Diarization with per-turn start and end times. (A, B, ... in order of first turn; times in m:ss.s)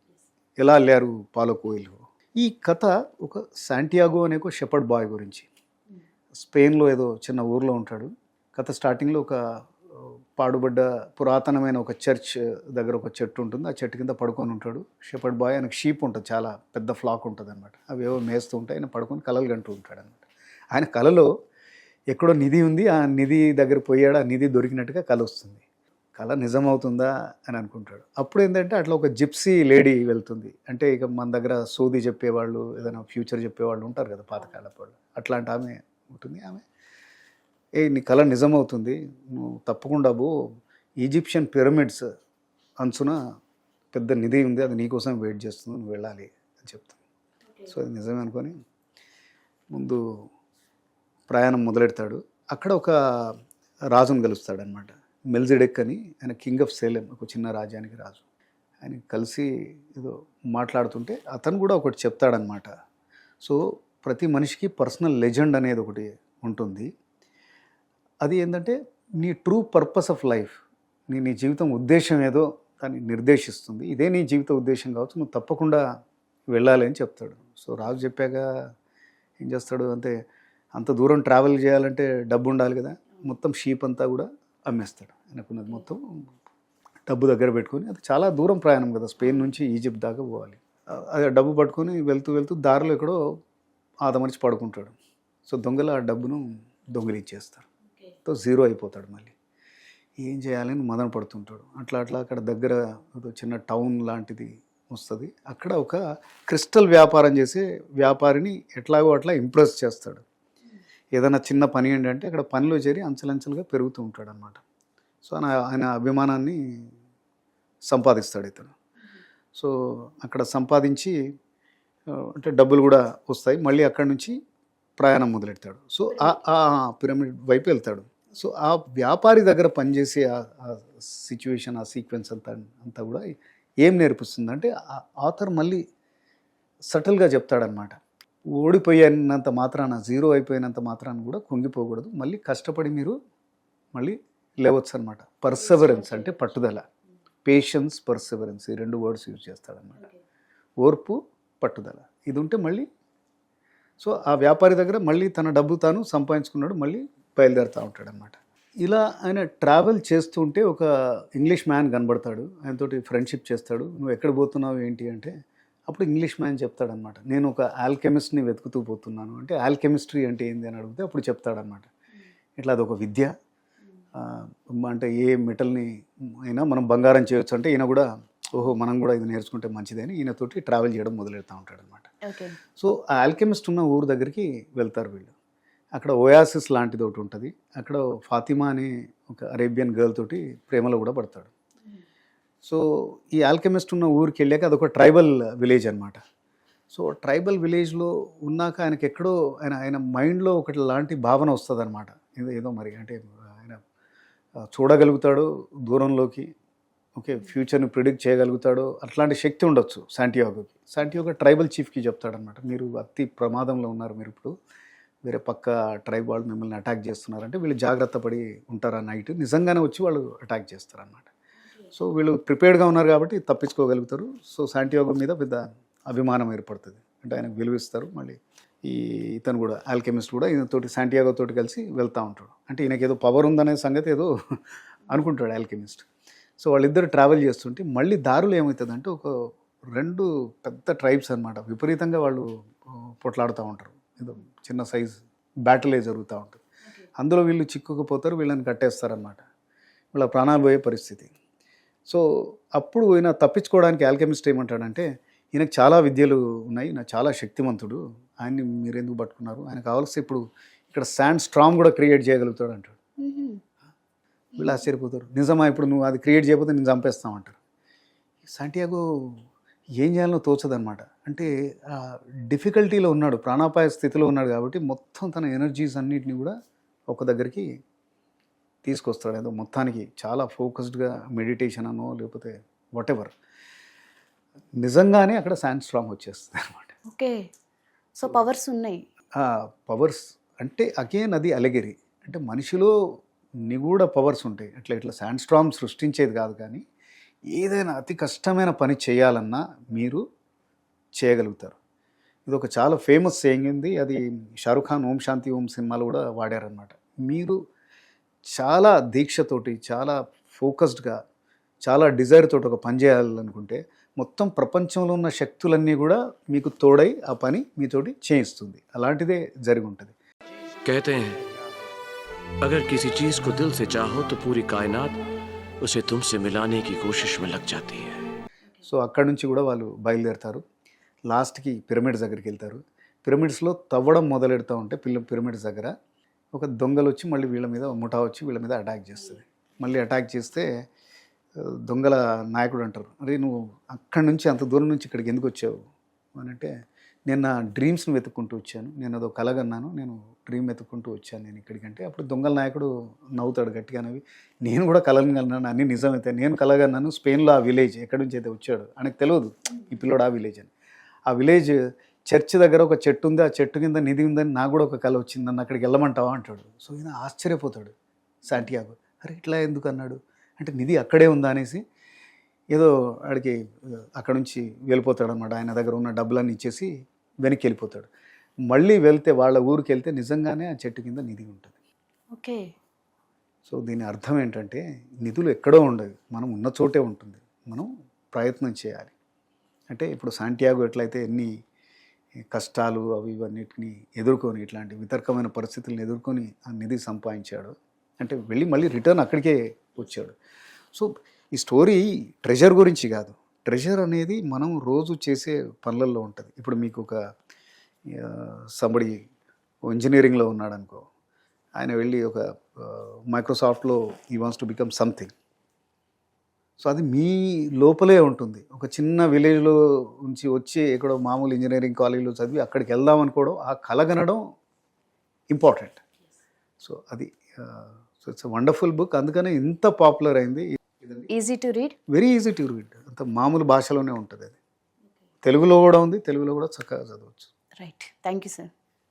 0:00.6-0:05.5 A
0:06.4-0:09.4 A
0:10.0-0:20.2 A
0:20.7-0:21.3 A
0:22.1-0:25.6 A
0:26.2-0:36.6 A
0:37.8-0:40.3 A
0:41.0-0:42.0 A
0:42.8-0:43.2 A
0:43.9-0:47.0 A
0:47.7-0:48.5 A
0:49.7-0:50.0 A
0:51.3-0:53.4 A
0:53.9-0:58.2 A
0:58.8-1:02.7 A
1:03.4-1:06.9 A
1:08.2-1:10.6 A
1:11.1-1:15.8 A
1:16.5-1:18.5 A
1:19.4-1:20.1 A
1:20.8-1:26.0 A
1:27.1-1:33.2 A
1:34.0-1:35.0 A
1:35.5-1:37.7 A
1:38.3-1:39.4 A
1:40.2-1:50.2 A
1:51.2-1:54.6 A
1:55.2-1:56.9 A
1:57.9-1:58.7 A
1:59.6-2:01.2 A
2:02.1-2:04.4 A
2:05.0-2:13.3 A
2:13.8-2:15.8 A
2:16.9-2:18.0 A
2:18.6-2:23.2 A
2:23.9-2:26.8 A
2:25.6-2:26.2 B
2:27.4-2:30.1 A
2:30.8-2:32.9 A
2:34.0-2:45.3 A
2:45.9-2:51.9 A
2:52.6-2:53.3 A
2:54.2-2:55.9 A
2:56.5-3:02.1 A
3:02.2-3:02.6 B
3:02.8-3:05.3 A
3:06.0-3:11.5 A
3:12.6-3:16.2 A
3:16.9-3:23.8 A
3:24.7-3:26.5 A
3:27.2-3:34.5 A
3:35.2-3:41.3 A
3:41.9-3:54.3 A
3:55.1-3:56.1 A
3:56.6-3:59.3 A
3:59.9-4:06.6 A
4:07.2-4:09.4 A
4:10.1-4:11.3 A
4:12.8-4:23.0 A
4:23.2-4:23.6 B
4:24.6-4:27.6 A
4:28.5-4:29.4 A
4:30.0-4:36.5 A
4:37.1-4:37.7 A
4:38.8-4:43.4 A
4:44.8-4:47.0 A
4:47.1-4:47.5 B
4:48.2-4:49.0 B
4:49.4-4:52.9 A
4:53.7-4:56.8 A
4:57.5-5:00.2 A
5:01.2-5:01.8 A
5:02.5-5:07.6 A
5:08.6-5:11.2 A
5:11.8-5:20.2 A
5:20.8-5:21.4 C
5:22.6-5:25.2 C
5:25.8-5:28.2 C
5:28.8-5:30.6 A
5:31.3-5:35.9 A
5:36.5-5:40.7 A
5:41.6-5:45.8 A
5:46.4-5:46.7 A
5:47.3-6:00.7 A
6:01.3-6:07.9 A
6:08.4-6:11.8 A
6:12.7-6:16.9 A
6:17.4-6:18.1 A
6:18.7-6:21.8 A
6:22.3-6:22.7 B
6:23.7-6:29.1 A
6:29.9-6:31.5 A
6:32.5-6:40.4 A
6:40.9-6:47.2 A
6:48.1-6:49.2 A
6:49.9-6:51.1 A
6:51.8-6:55.3 A
6:56.8-7:04.4 A
7:05.5-7:06.0 A
7:06.8-7:11.3 A
7:11.3-7:12.0 B
7:12.1-7:14.6 A
7:15.4-7:17.5 A
7:17.8-7:18.7 B